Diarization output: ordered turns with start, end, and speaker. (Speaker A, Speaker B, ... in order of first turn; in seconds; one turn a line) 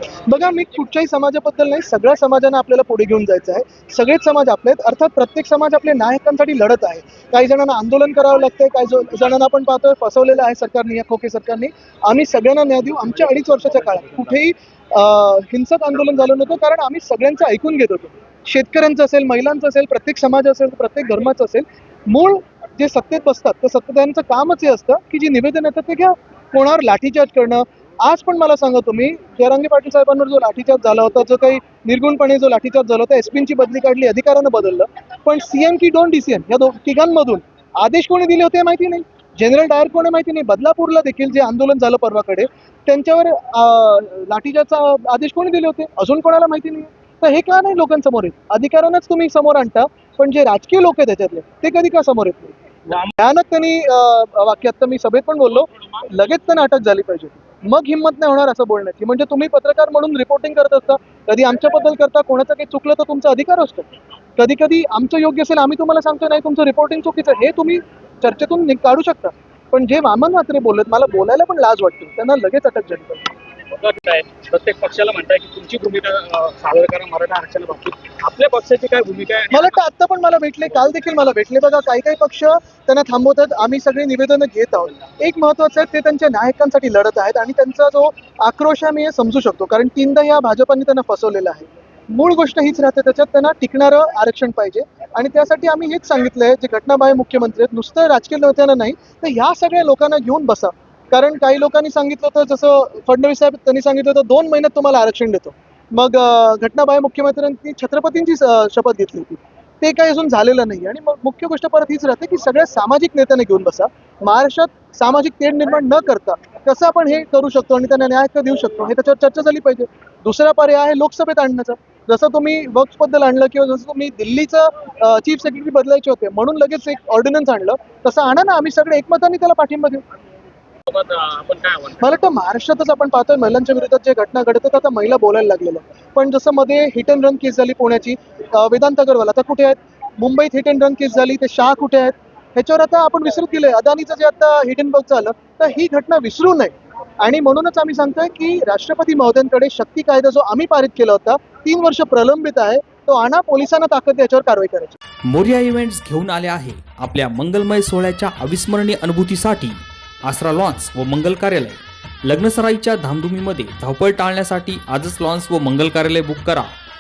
Speaker A: 0.3-52.6
Speaker B: 13.3-14.3
Speaker A: 53.2-73.3
Speaker B: 73.7-79.7
Speaker A: 79.5-130.0
Speaker B: 130.9-132.0
Speaker A: 132.0-155.0
Speaker C: 155.3-166.7